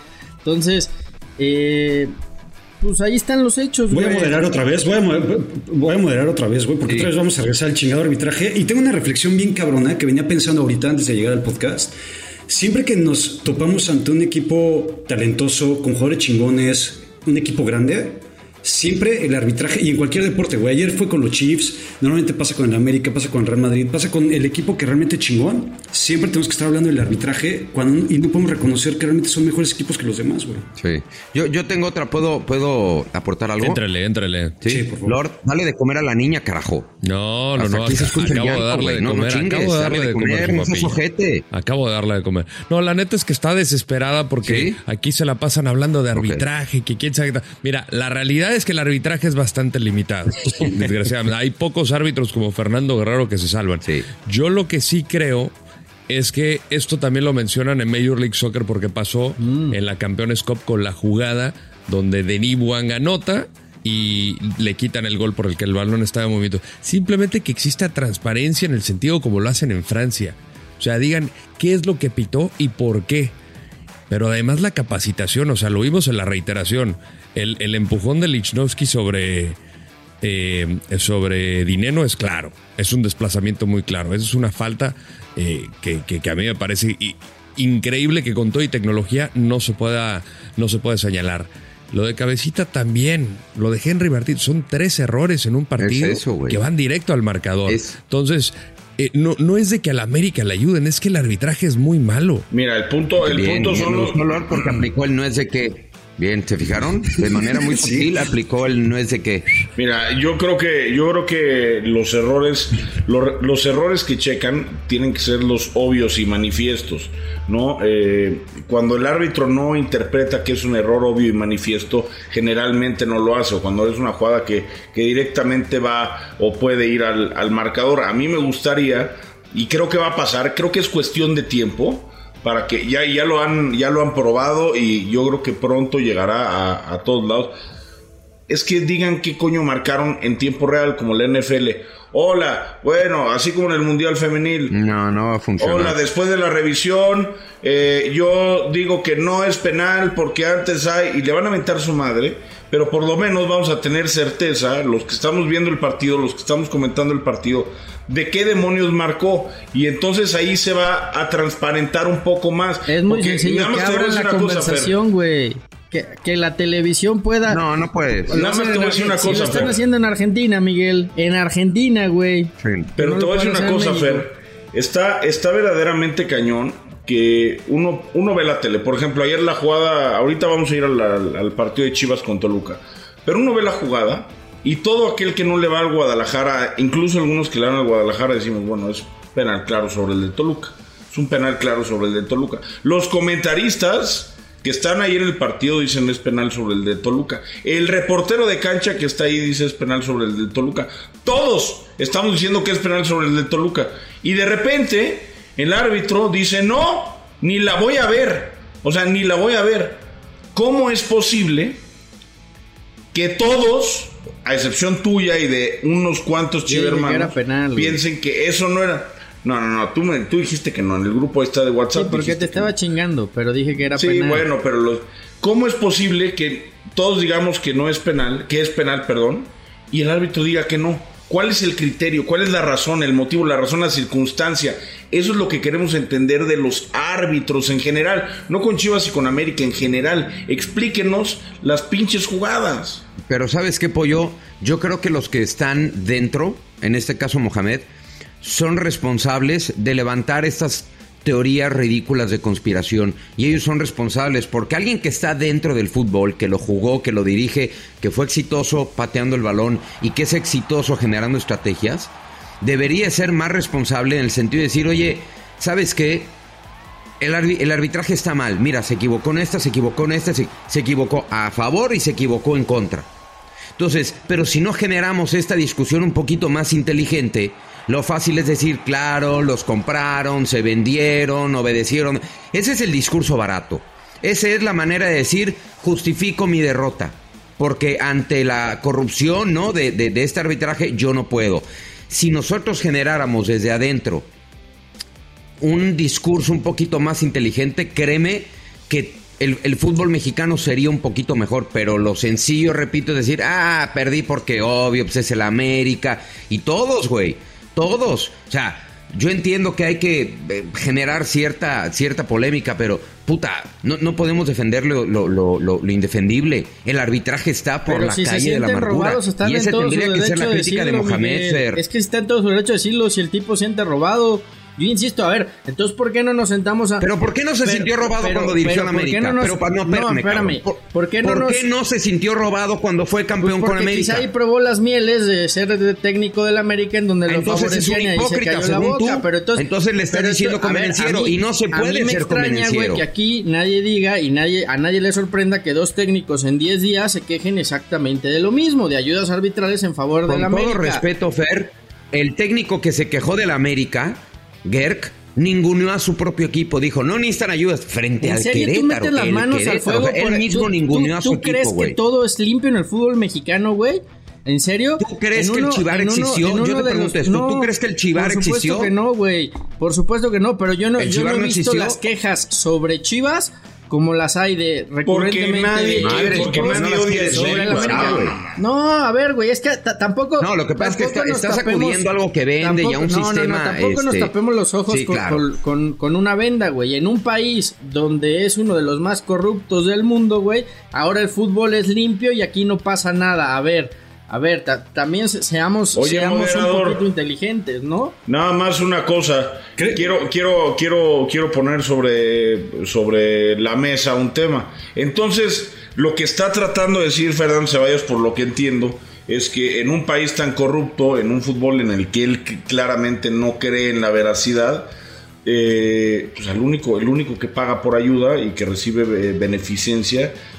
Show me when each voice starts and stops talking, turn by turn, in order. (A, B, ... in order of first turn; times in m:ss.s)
0:00.4-0:02.1 A
0:02.8-0:04.4 A
0:03.9-0:12.0 B
0:12.5-0:30.7 B
0:30.8-0:33.8 C
0:33.6-0:34.6 D
0:34.6-0:37.0 C
0:34.6-0:35.2 B
0:37.0-0:41.0 D
0:37.6-0:41.4 C
0:41.5-0:55.6 D
0:44.4-0:44.8 C
0:46.2-0:46.5 C
0:56.1-1:13.4 D
0:59.4-0:59.8 A
1:14.1-1:19.6 D
1:20.2-1:42.5 D
1:35.8-1:36.6 C
1:37.7-1:38.0 C
1:42.5-1:44.4 E
1:43.2-1:49.5 C
1:47.2-1:48.1 B
1:49.8-2:17.5 E
2:18.5-2:24.7 E
2:24.7-2:26.0 C
2:25.6-2:45.0 E
2:42.9-2:47.6 A
2:47.5-2:48.4 C
2:48.3-2:49.8 E
2:48.3-2:54.3 A
2:52.6-2:52.9 C
2:53.0-3:30.0 E
3:30.5-3:31.8 E
3:33.1-3:42.8 E
3:36.7-3:38.0 A
3:41.9-3:44.5 A
3:43.9-4:03.1 E
4:03.2-4:07.9 C
4:08.4-4:26.4 C
4:27.2-4:33.1 C
4:33.8-4:54.3 C
4:55.6-5:21.8 C
5:17.9-5:27.1 A
5:27.0-5:34.3 C
5:27.6-5:31.7 A
5:33.4-5:51.0 A
5:37.3-5:43.0 C
5:50.3-6:02.0 C
5:58.2-6:22.1 A
6:05.0-6:08.9 C
6:11.0-6:12.0 C
6:15.1-6:18.6 E
6:16.0-6:18.4 C
6:20.4-6:24.3 C
6:22.6-6:38.2 A
6:24.9-6:25.4 C
6:36.0-6:37.0 E
6:38.3-6:54.9 E
6:39.8-6:40.1 B
6:55.4-7:00.4 E